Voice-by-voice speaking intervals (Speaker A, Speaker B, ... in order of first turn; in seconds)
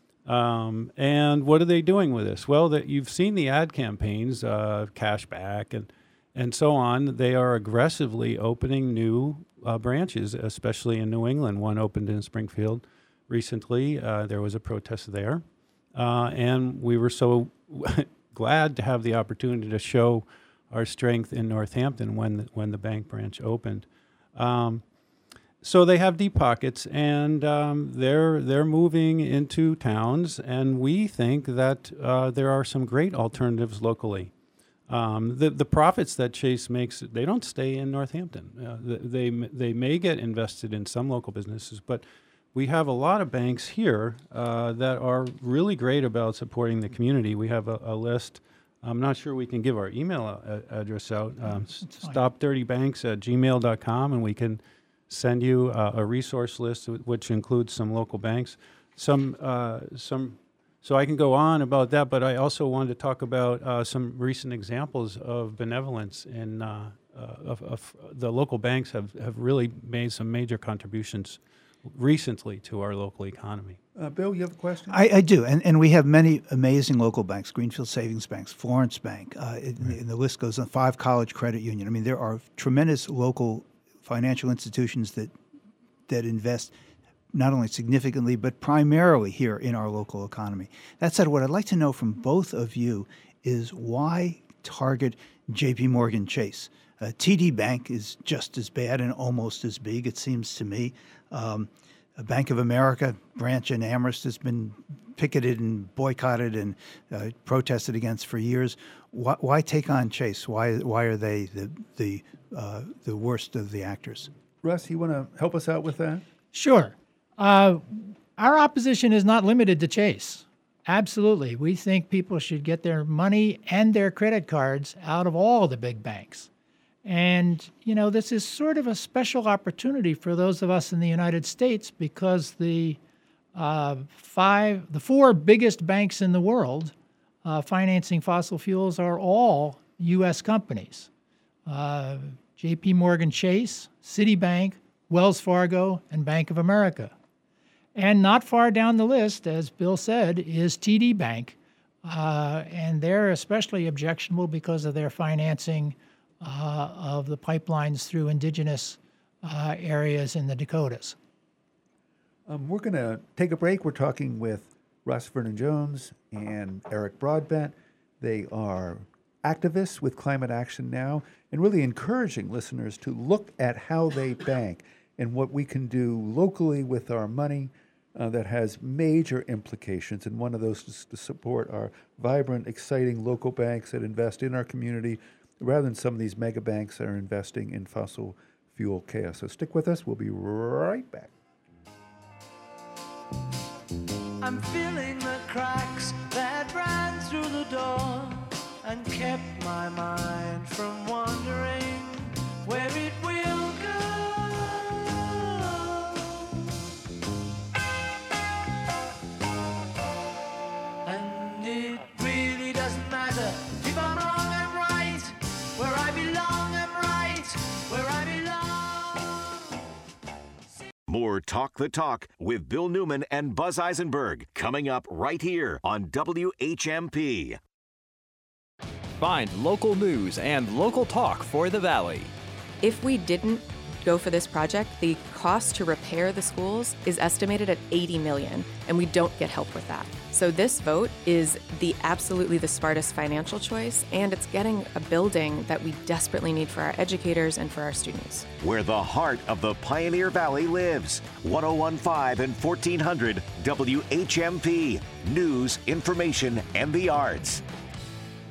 Speaker A: 0.3-24.8, 25.6-34.3, 34.9-73.8
Speaker B: 51.5-52.2, 116.5-126.5, 127.0-133.0, 133.6-136.9, 137.4-141.1, 141.7-147.1, 147.9-161.2
Speaker C: 74.0-75.0, 114.6-116.2, 162.5-191.3
Speaker D: 74.9-85.3, 86.1-86.7, 87.3-114.3
Speaker E: 194.4-206.3, 211.1-219.6
Speaker F: 221.1-227.6, 248.6-257.6
Speaker G: 229.2-232.3
Speaker H: 232.8-248.5